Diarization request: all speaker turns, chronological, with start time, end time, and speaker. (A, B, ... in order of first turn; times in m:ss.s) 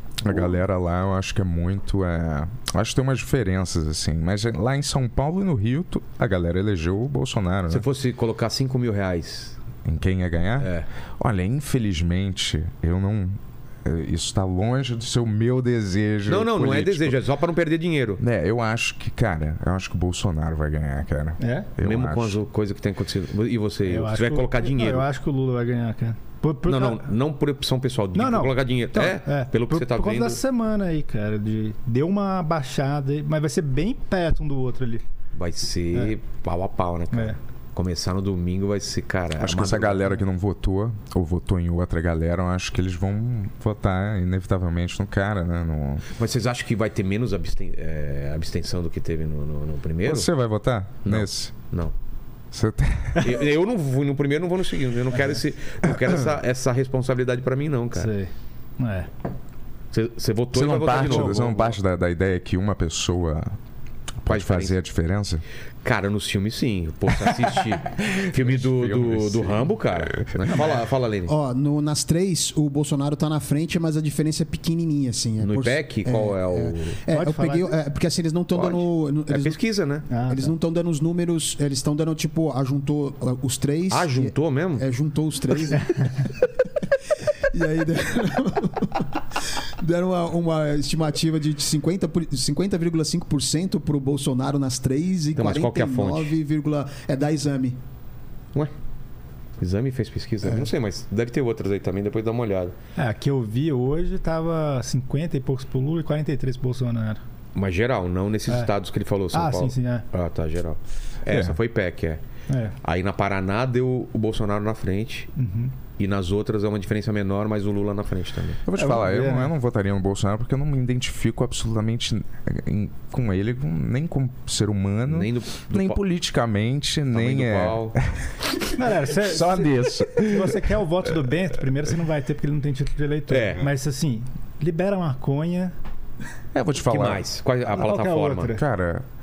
0:00.2-0:07.8 A
0:07.7-0:09.6 B
0:09.8-0:17.2 A
0:10.6-0:10.9 B
0:16.3-0:18.2 B
0:18.2-0:22.4 A
0:21.4-0:21.7 C
0:21.8-0:25.1 B
0:23.9-0:27.0 C
0:26.7-0:30.4 B
0:28.1-0:35.0 C
0:35.3-0:40.0 B
0:37.1-0:37.4 C
0:39.4-0:46.0 A
0:46.1-0:50.3 B
0:50.0-0:51.5 A
0:51.0-0:51.9 B
0:52.5-0:53.4 A
0:53.2-0:58.1 B
0:58.0-0:59.1 C
0:59.9-1:01.8 B
1:00.5-1:03.5 A
1:01.0-1:01.4 C
1:04.2-1:05.4 A
1:04.3-1:04.8 B
1:05.8-1:11.3 B
1:07.7-1:10.5 A
1:11.3-1:19.6 D
1:15.4-1:17.0 B
1:17.1-1:17.7 C
1:18.5-1:20.1 B
1:20.1-1:20.5 C
1:20.3-1:26.3 D
1:23.9-1:24.8 B
1:27.5-1:29.1 D
1:29.8-1:37.8 D
1:35.4-1:36.4 B
1:39.6-1:42.7 B
1:43.0-1:47.2 C
1:47.5-1:52.2 B
1:49.3-1:50.0 C
1:51.3-1:51.6 A
1:52.5-1:52.7 C
1:52.8-1:55.3 B
1:55.4-1:55.7 C
1:56.0-1:58.6 B
1:58.6-2:08.3 A
1:58.8-1:59.5 C
2:05.1-2:06.0 B
2:07.1-2:08.0 B
2:08.7-2:15.7 C
2:09.1-2:10.8 A
2:13.3-2:13.6 B
2:16.5-2:17.2 A
2:16.7-2:18.5 B
2:17.7-2:18.6 C
2:18.4-2:19.0 A